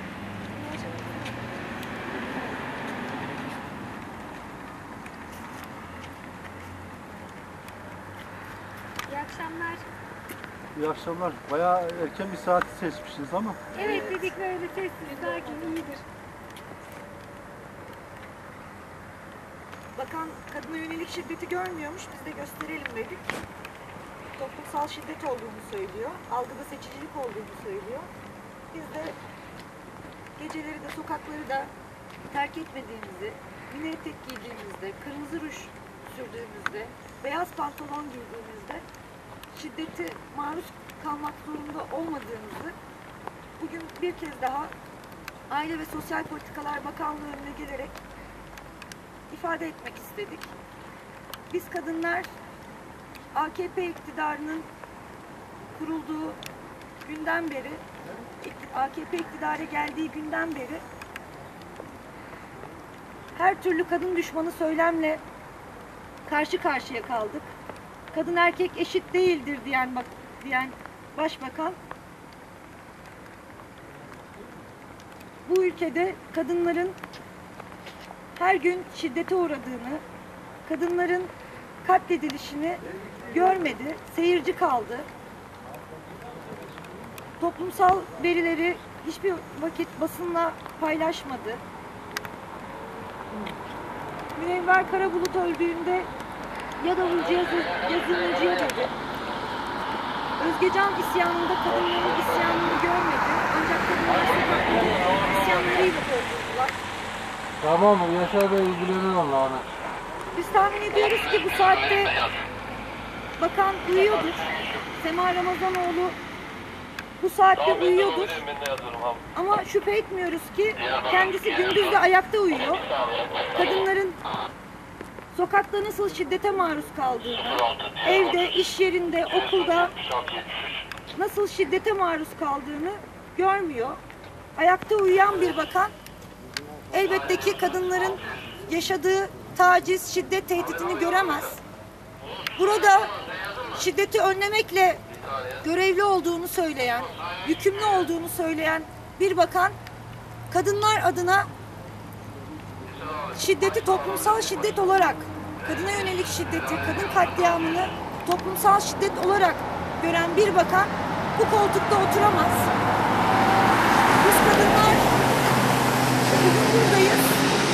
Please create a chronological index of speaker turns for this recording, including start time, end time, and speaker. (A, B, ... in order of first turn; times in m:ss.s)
0:00.5-0:01.6 A
0:09.1-0:09.9 A
0:10.8-0:13.6 B
0:13.7-0:14.3 C
0:13.7-0:16.0 A
0:20.0-0:23.2 C
0:24.4-0:28.1 C
0:28.7-0:29.2 C
0:30.4-0:31.7 C
0:32.3-0:38.8 C
0:39.5-0:42.8 C
0:43.6-0:44.7 C
0:45.5-0:48.0 C
0:49.3-0:50.5 C
0:51.5-0:52.3 C
0:53.3-0:54.7 C
0:55.8-0:56.4 C
0:57.0-0:57.8 C
0:58.4-1:00.8 C
1:03.4-1:05.2 C
1:06.3-1:07.5 C
1:08.1-1:11.8 C
1:15.5-1:17.0 C
1:18.4-1:20.0 C
1:20.6-1:21.3 C
1:21.8-1:25.1 C
1:27.4-1:31.6 C
1:34.4-1:36.1 C
1:36.8-1:39.0 C
1:40.4-1:46.8 C
1:48.0-1:49.1 B
1:50.3-1:52.2 C
1:53.4-1:54.4 C
1:55.0-1:56.2 C
1:57.2-1:58.5 C
1:59.4-2:02.8 C
2:03.5-2:04.2 C
2:05.3-2:10.0 C
2:11.1-2:14.0 C
2:14.6-2:15.9 C
2:16.9-2:21.6 C
2:22.6-2:23.1 C
2:23.7-2:25.0 C
2:25.6-2:29.8 C
2:30.5-2:31.5 C
2:33.3-2:42.7 C
2:44.2-2:45.1 C
2:46.3-2:47.3 C